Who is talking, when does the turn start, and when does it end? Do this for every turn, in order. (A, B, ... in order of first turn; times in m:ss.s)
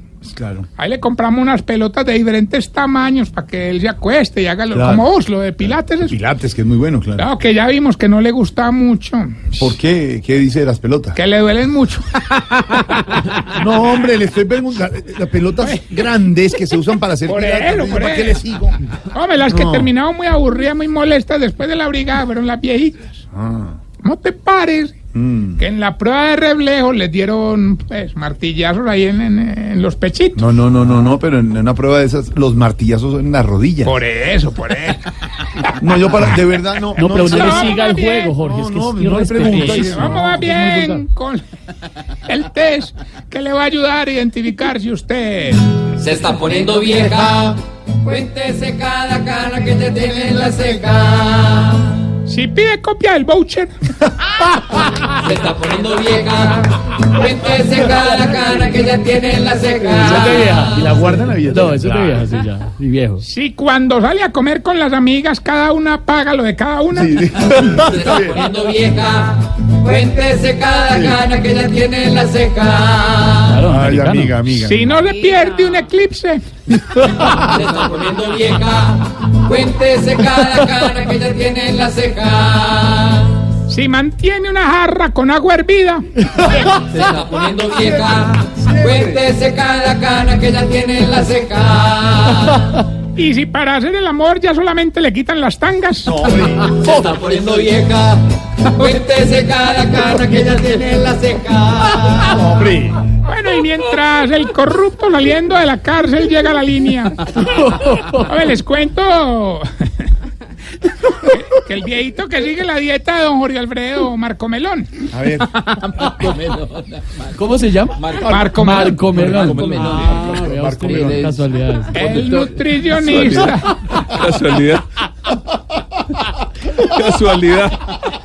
0:00.2-0:00.7 A
0:00.8-0:06.2 B
0:04.7-0:05.1 A
0:05.7-0:07.3 A
0:07.2-0:09.7 B
0:09.6-0:11.2 A
0:11.2-0:13.6 B
0:13.5-0:18.8 A
0:15.6-0:15.9 B
0:17.2-0:18.4 B
0:19.1-0:23.2 B
0:19.5-0:19.9 A
0:23.3-0:23.8 A
0:24.0-0:25.0 B
0:25.1-0:25.6 A
0:25.6-0:30.5 B
0:30.4-0:34.0 A
0:33.8-0:35.1 B
0:35.8-0:40.4 A
0:37.0-0:41.1 C
0:37.1-0:38.3 B
0:39.5-0:41.4 B
0:42.2-0:45.7 B
0:46.0-0:52.0 D
0:50.0-0:50.8 A
0:52.3-0:53.8 B
0:55.1-1:00.7 D
1:00.0-1:03.2 C
1:00.1-1:02.2 A
1:03.2-1:07.6 B
1:06.9-1:08.4 A
1:07.8-1:13.6 D
1:10.9-1:11.2 A
1:13.4-1:14.4 C
1:13.7-1:15.0 A
1:14.5-1:16.4 B
1:17.0-1:17.3 C
1:17.4-1:23.4 D
1:23.7-1:26.4 B
1:26.7-1:32.7 D
1:27.7-1:29.2 A
1:33.2-1:36.2 B
1:36.0-1:37.4 A
1:36.7-1:42.4 D
1:42.3-1:43.0 A
1:43.2-1:47.4 B
1:47.4-1:48.3 C
1:48.2-1:50.1 B
1:51.1-1:54.9 B
1:55.1-1:55.8 A
1:56.1-1:57.0 D
1:57.3-2:02.2 C
1:58.0-1:58.4 D
1:58.2-1:59.1 B
1:59.1-2:01.4 A
1:59.4-2:01.0 D
2:01.9-2:03.7 B
2:03.0-2:05.8 A
2:03.9-2:04.4 C
2:06.8-2:07.8 A